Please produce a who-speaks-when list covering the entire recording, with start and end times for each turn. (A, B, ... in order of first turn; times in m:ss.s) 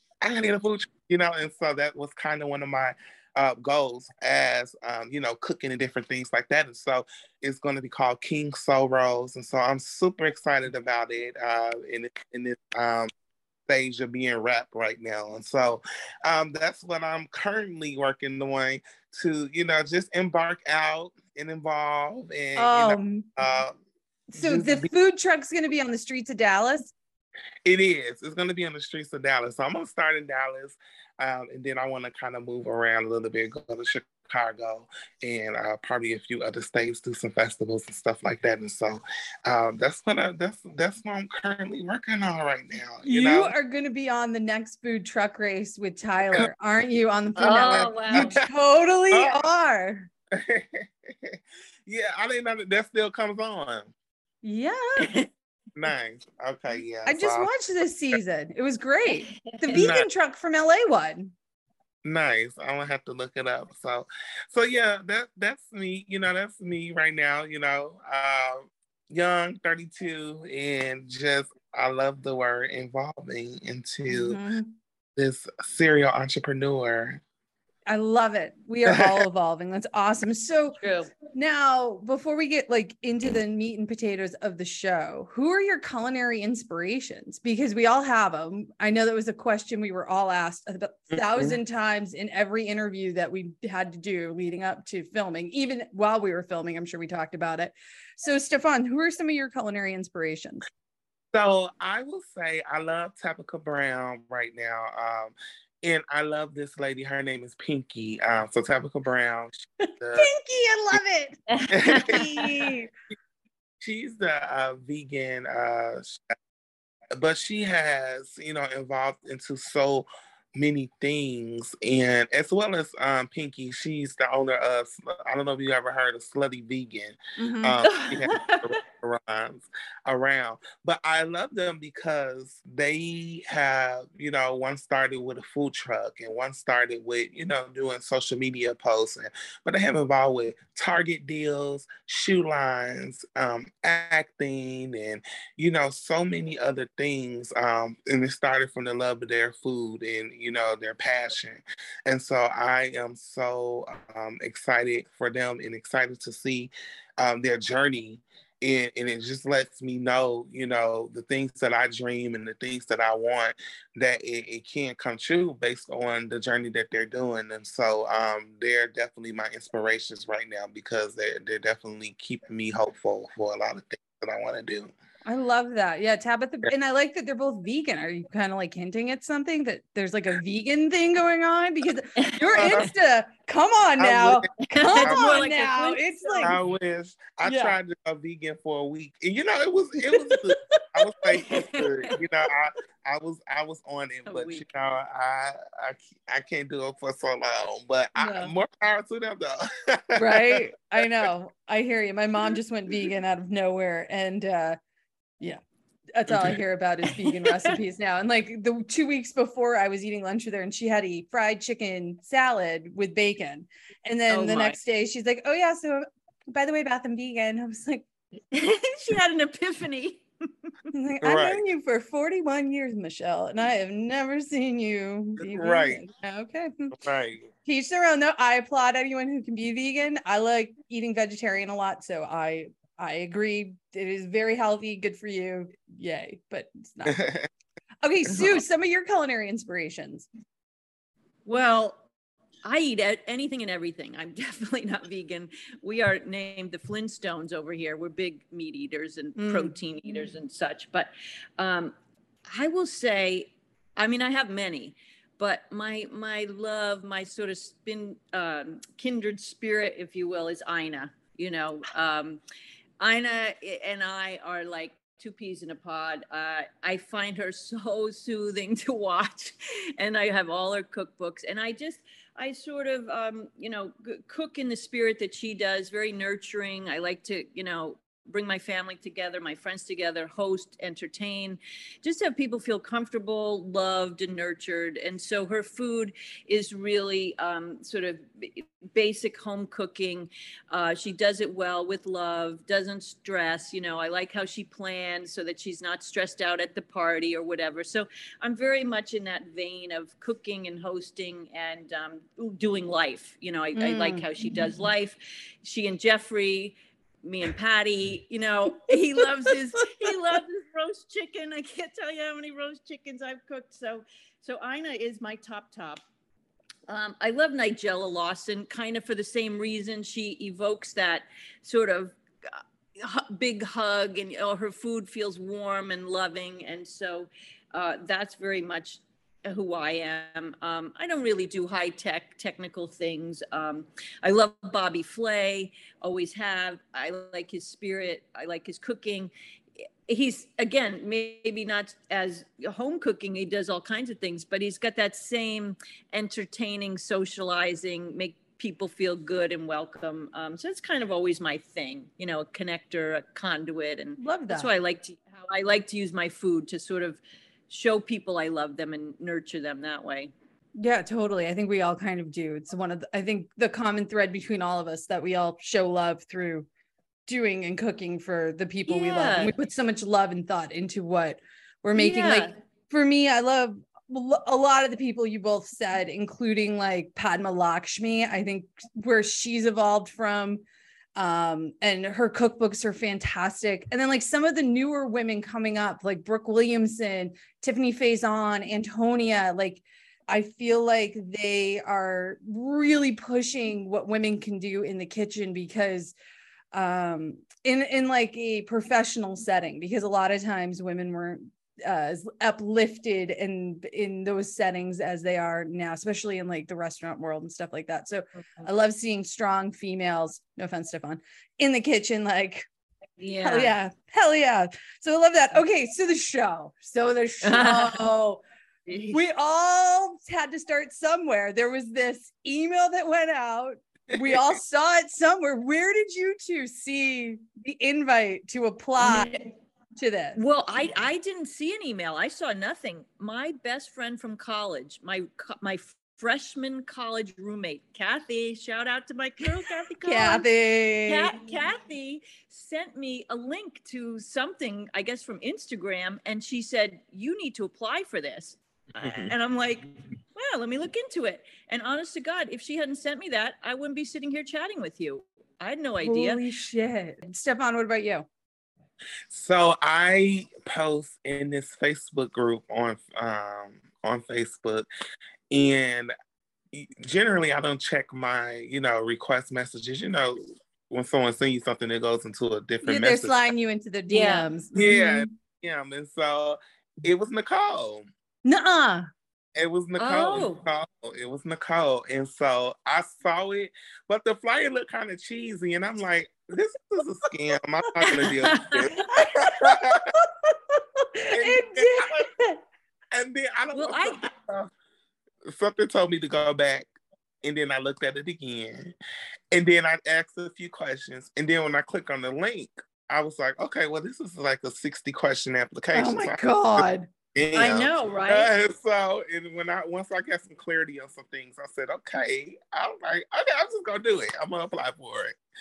0:00.2-0:13.1 A
0:13.7-0:23.8 A
0:22.6-0:23.3 B
0:24.3-0:26.9 B
0:24.3-0:24.9 A
0:27.6-0:43.5 A
0:43.0-0:50.1 B
0:47.4-0:48.4 C
0:47.5-0:48.4 A
0:49.1-0:49.5 A
0:50.3-0:53.9 A
0:54.4-0:55.1 B
0:55.0-0:55.3 C
0:55.8-0:57.5 A
0:57.1-1:01.3 B
0:59.5-0:59.9 C
0:59.7-1:00.1 A
1:02.0-1:14.4 A
1:14.1-1:14.8 B
1:15.2-1:17.2 A
1:17.9-1:40.6 B
1:18.9-1:19.1 A
1:20.8-1:21.1 C
1:31.1-1:31.6 A
1:41.3-1:50.3 A
1:49.8-1:51.4 B
1:51.5-1:52.5 C
1:51.7-1:52.4 A
1:52.1-1:52.9 B
1:53.8-1:56.3 A
1:57.2-2:55.0 A
2:07.4-2:07.8 B
2:07.8-2:08.8 C
2:55.2-3:06.5 B
3:02.2-3:02.9 C
3:02.6-3:02.9 A
3:04.0-3:05.5 A
3:04.7-3:06.6 C
3:06.4-3:21.3 A
3:07.4-3:07.8 B
3:10.1-3:11.3 B
3:11.4-3:12.1 C
3:14.3-3:14.6 C
3:18.2-3:18.5 B
3:20.2-3:24.8 B
3:26.2-3:38.1 B
3:26.3-3:26.6 A
3:27.3-3:27.8 C
3:34.3-3:34.8 C
3:38.5-3:40.7 C
3:40.9-3:47.0 B
3:41.2-3:41.6 A
3:45.4-3:46.0 A
3:47.0-3:47.5 A
3:47.6-3:57.3 B
3:57.1-3:57.5 A
3:58.0-4:00.3 B
4:01.5-4:02.0 C
4:02.6-4:11.9 C
4:09.4-4:09.7 B
4:12.5-4:22.4 C
4:23.0-5:16.0 C
5:03.8-5:04.3 B
5:09.2-5:10.2 B
5:16.9-5:39.3 C
5:40.1-6:00.3 C
5:54.2-5:54.7 B
6:00.8-6:06.7 B
6:07.3-6:20.6 B
6:08.9-6:09.6 C
6:12.0-6:12.5 C
6:21.2-6:36.2 B
6:36.7-6:52.7 B
6:53.2-6:53.7 C
6:53.4-6:58.4 B
6:57.4-6:58.0 C
6:58.9-6:59.2 C
6:59.1-7:09.3 B
7:04.1-7:04.6 A
7:09.0-7:09.4 C
7:10.0-7:10.4 B
7:10.4-7:20.5 C
7:20.0-7:21.4 B
7:21.1-7:36.4 C
7:29.0-7:29.3 A
7:36.0-7:38.3 B
7:39.3-7:44.9 A
7:45.5-7:46.1 A
7:46.7-7:53.5 A
7:52.8-7:55.3 B
7:54.1-7:54.5 C
7:54.7-7:58.1 A
7:58.4-7:59.1 B
7:59.6-8:10.2 A
8:00.0-8:00.6 C
8:08.0-8:08.3 B
8:08.4-8:09.3 C
8:09.2-8:12.6 B
8:11.3-8:12.3 A
8:13.1-8:14.7 A
8:13.7-8:14.2 C
8:15.5-8:16.9 A
8:17.4-8:19.0 A
8:19.5-8:26.8 A
8:25.9-8:27.1 B
8:27.4-8:35.4 A
8:27.6-8:28.5 C